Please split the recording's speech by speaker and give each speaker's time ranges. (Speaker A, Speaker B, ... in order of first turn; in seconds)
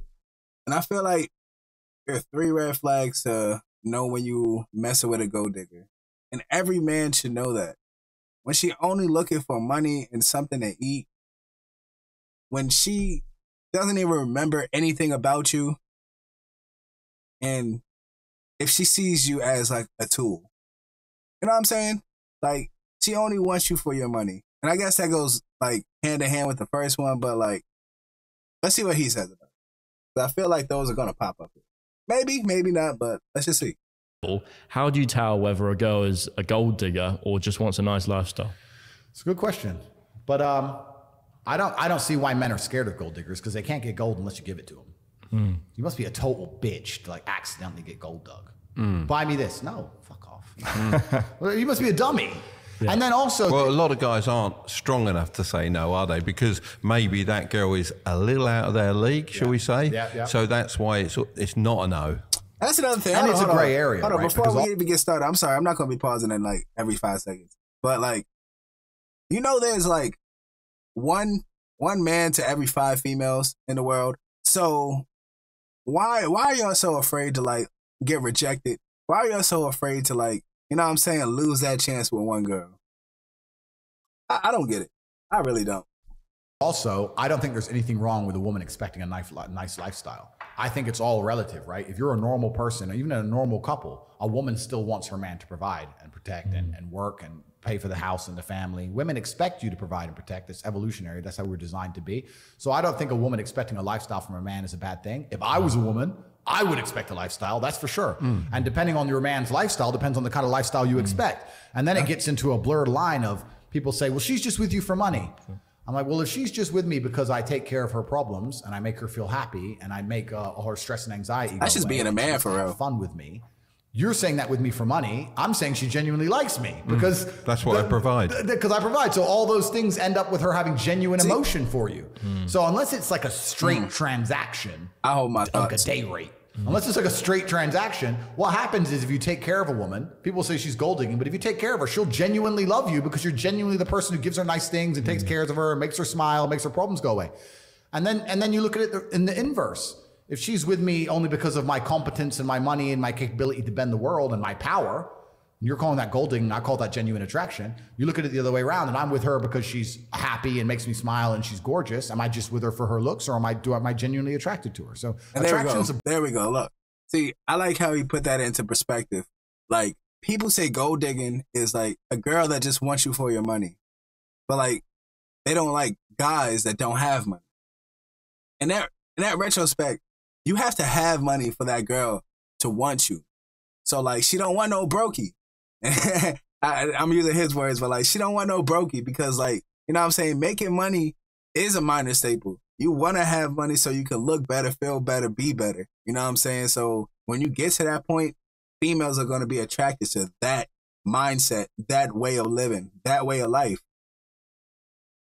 Speaker A: 0.7-1.3, 2.1-7.8, 8.4-11.1, 12.5-15.8, 17.4-17.8, 18.6-20.5, 21.4-27.6, 28.6-29.5, 30.1-33.8, 62.6-68.2, 69.3-70.2, 70.9-75.0, 75.8-82.8, 84.3-85.9, 121.6-122.8, 133.6-133.9, 135.0-135.8, 165.3-173.8, 174.5-174.8, 175.4-177.4, 178.6-183.2, 183.8-203.8
Speaker B: 34.2-38.5, 45.3-45.6
Speaker C: 39.1-40.9, 41.5-44.9, 45.7-53.7, 59.3-60.3, 63.1-64.7, 86.6-147.3, 147.9-166.0
Speaker D: 53.5-62.2, 126.9-128.3